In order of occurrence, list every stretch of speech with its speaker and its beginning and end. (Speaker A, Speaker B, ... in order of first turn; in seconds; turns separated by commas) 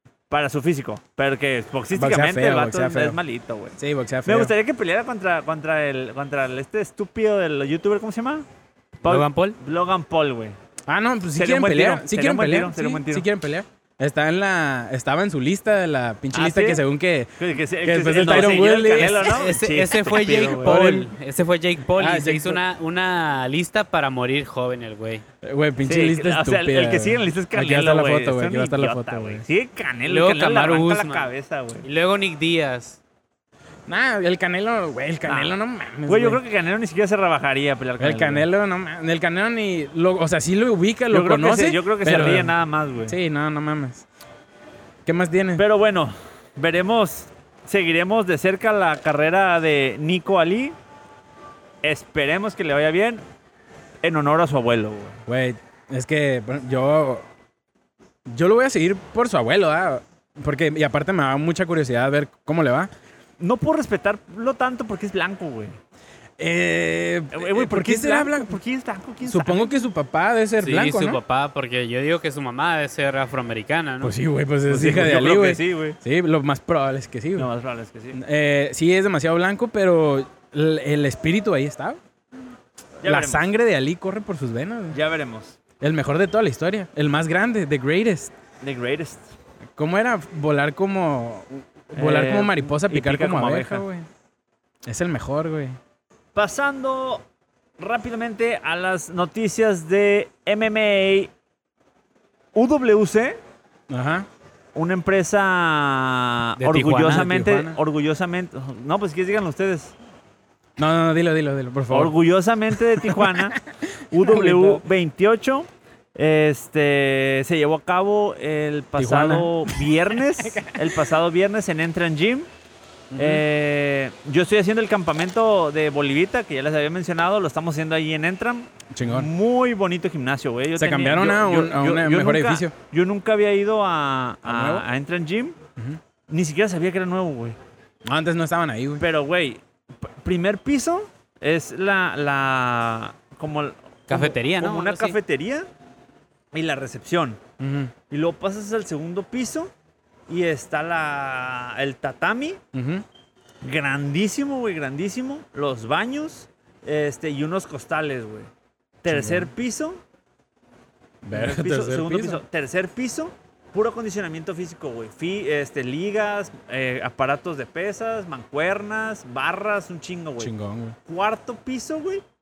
Speaker A: 0.3-8.5, Speaker B: 1.9-3.2, Speaker B: 3.8-4.5, Speaker A: 9.0-10.6, Speaker C: 9.1-9.6, Speaker B: 10.9-17.3, Speaker A: 11.4-13.3, Speaker A: 16.3-16.8, Speaker A: 17.4-21.1, Speaker B: 17.8-19.4, Speaker C: 19.0-25.2, Speaker B: 20.6-21.1, Speaker B: 22.0-22.6, Speaker B: 25.4-29.4, Speaker A: 25.8-31.9, Speaker C: 30.1-31.3, Speaker C: 31.8-33.0, Speaker B: 33.9-36.4, Speaker A: 35.3-38.5, Speaker B: 38.0-42.5, Speaker A: 41.1-43.2, Speaker B: 43.1-44.1, Speaker B: 45.0-45.6, Speaker A: 45.6-50.8, Speaker A: 51.8-53.2, Speaker A: 54.0-55.2, Speaker B: 55.3-57.2, Speaker B: 58.3-62.9, Speaker A: 63.4-65.8, Speaker B: 66.4-68.6, Speaker A: 67.3-69.8, Speaker B: 69.2-71.2, Speaker C: 70.6-74.1, Speaker B: 74.0-77.5, Speaker A: 74.7-76.0, Speaker A: 77.4-78.2, Speaker B: 78.1-82.0, Speaker A: 83.0-83.5, Speaker B: 83.1-85.0, Speaker A: 84.9-85.6, Speaker B: 85.8-88.3, Speaker A: 88.6-89.3, Speaker B: 89.8-94.1, Speaker A: 91.9-93.8, Speaker B: 94.9-95.8, Speaker A: 96.3-97.2, Speaker A: 97.8-101.3, Speaker A: 102.5-103.4, Speaker B: 103.9-104.3, Speaker A: 104.8-110.0, Speaker C: 106.6-107.3, Speaker B: 106.9-107.8, Speaker B: 110.8-112.2, Speaker A: 111.9-113.6, Speaker B: 112.7-114.8, Speaker A: 114.1-122.5, Speaker B: 119.0-119.9, Speaker B: 120.4-121.0, Speaker B: 123.1-123.4, Speaker A: 123.2-135.6, Speaker B: 128.9-129.3, Speaker B: 130.8-132.7, Speaker B: 134.4-134.8, Speaker A: 136.3-137.6, Speaker B: 138.1-139.0, Speaker A: 139.0-145.7, Speaker C: 144.1-145.2, Speaker A: 146.5-147.4, Speaker B: 147.6-147.9, Speaker A: 148.1-149.7, Speaker A: 150.3-152.6, Speaker B: 152.7-153.0, Speaker A: 153.6-158.5, Speaker A: 159.0-160.0, Speaker B: 159.1-159.5, Speaker B: 161.2-162.4, Speaker A: 161.3-170.5, Speaker B: 170.4-171.0, Speaker A: 171.1-172.2